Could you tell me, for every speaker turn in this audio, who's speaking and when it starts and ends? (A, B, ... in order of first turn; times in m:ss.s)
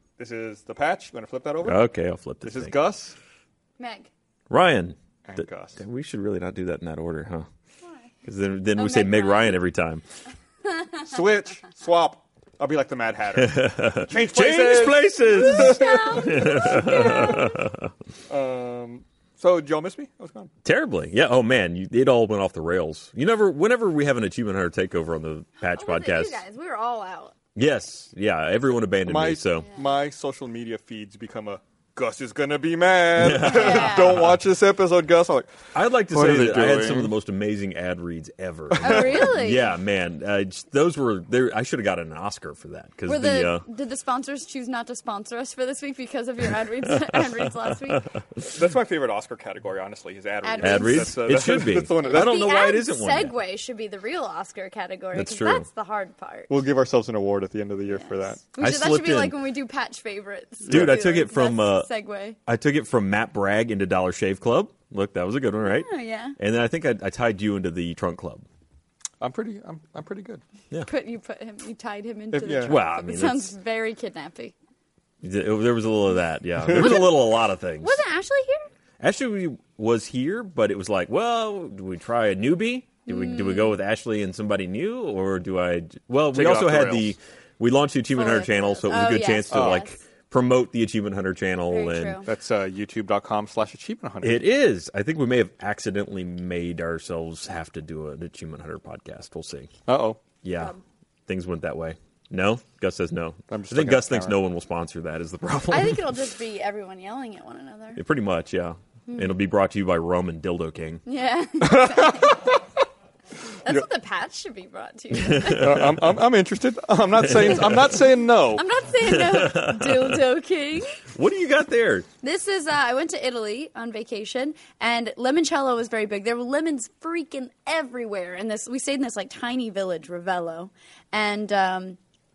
0:00.2-0:01.8 A
0:01.6-0:02.7 B
0:02.4-0:03.2 A
0:03.8-0:04.1 C
0:04.5-0:07.5 B
0:05.2-0:05.8 A
0:08.2-0:10.0 B
0:08.8-0:09.6 C
0:11.0-0:17.4 A
0:13.3-0:17.9 B
0:15.4-0:17.4 C
0:18.3-0:20.5 A
0:20.6-0:26.4 B
0:25.6-0:27.3 C
0:27.5-0:29.7 B
0:29.1-0:37.1 A
0:33.2-0:34.3 B
0:33.4-0:34.2 C
0:35.7-0:43.6 B
0:38.7-0:39.2 A
0:38.8-0:39.7 C
0:43.0-0:48.0 C
0:47.1-0:48.0 B
0:48.4-0:52.5 A
0:50.4-0:51.1 C
0:50.6-0:53.3 B
0:52.0-0:56.5 C
0:55.1-0:55.7 B
0:56.5-0:58.4 A
0:57.9-1:02.4 C
0:58.6-0:59.4 B
1:00.7-1:01.0 A
1:00.7-1:01.9 B
1:02.4-1:08.4 B
1:05.6-1:06.4 C
1:09.2-1:10.4 A
1:10.8-1:14.5 C
1:12.3-1:12.7 A
1:12.5-1:13.5 B
1:15.2-1:18.0 B
1:16.7-1:18.6 C
1:19.0-1:32.2 B
1:23.0-1:23.8 C
1:26.3-1:27.1 A
1:28.1-1:29.9 C
1:29.5-1:29.8 A
1:31.7-1:32.3 C
1:32.3-1:34.4 A
1:34.2-1:39.7 B
1:39.9-1:40.2 A
1:40.4-1:40.8 B
1:41.3-1:46.1 B
1:43.5-1:44.4 A
1:45.7-1:48.0 C
1:48.0-1:51.0 B
1:49.1-1:49.3 C
1:51.0-1:52.4 C
1:51.6-1:52.6 A
1:53.6-1:55.8 C
1:55.1-1:56.0 B
1:55.6-1:58.6 A
1:57.2-1:57.8 B
1:58.5-2:01.0 C
1:59.0-2:00.2 B
2:01.0-2:02.1 B
2:02.2-2:12.0 C